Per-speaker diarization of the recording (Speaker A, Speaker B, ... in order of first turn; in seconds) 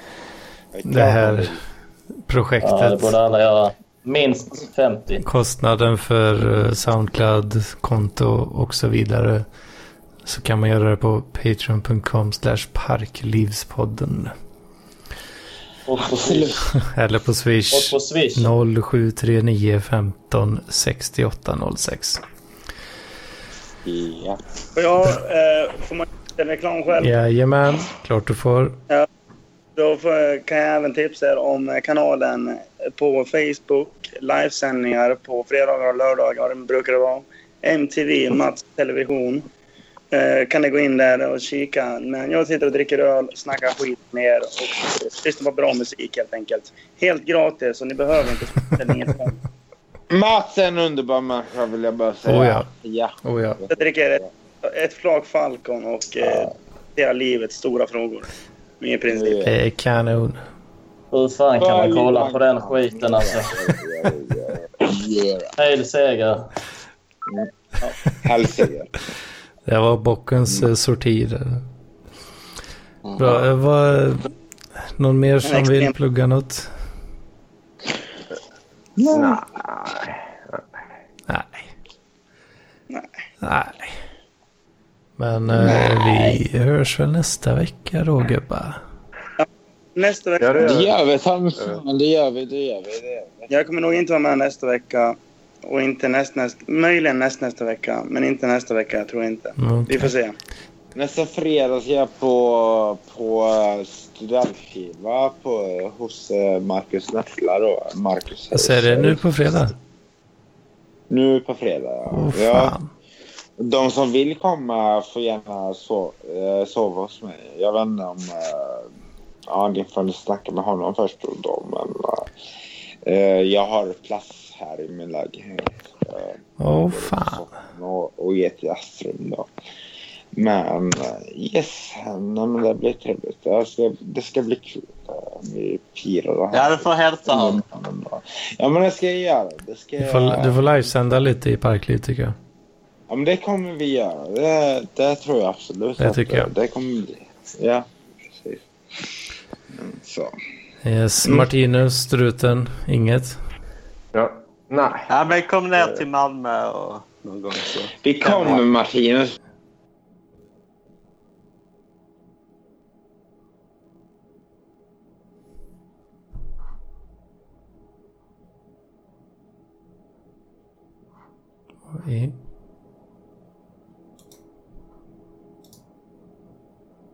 Speaker A: 0.7-1.6, 16.0-16.6, 23.8-24.4, 50.1-54.3, 59.1-59.5, 61.6-65.5, 68.2-68.9, 79.0-79.4, 90.6-93.5, 100.9-109.2, 111.1-112.7, 113.6-118.8, 119.5-122.2, 123.0-129.5, 130.3-140.6, 143.1-148.6, 149.8-150.3, 158.0-159.3
Speaker B: 0.8-1.6, 2.3-3.1, 5.2-9.4, 10.2-14.3, 16.7-22.2, 27.0-28.8, 52.2-52.7, 53.2-53.6, 59.5-60.4, 69.7-71.6, 73.1-74.2, 75.0-76.7, 81.3-81.7, 83.4-83.9, 85.2-88.8, 99.6-100.1, 108.5-109.7, 112.1-112.9, 126.6-127.5, 140.0-142.3, 146.0-146.5, 150.8-153.4, 171.9-172.3
Speaker C: 2.6-5.2, 15.9-16.6, 17.7-18.5, 61.1-63.7, 65.6-66.5
Speaker D: 24.8-27.1, 29.8-39.5, 40.1-49.4, 53.7-58.3, 58.8-59.6, 75.4-76.0, 89.4-90.8, 93.5-100.3
Speaker E: 79.1-80.7, 90.4-91.0, 154.1-155.1
Speaker F: 136.5-137.6, 155.1-158.6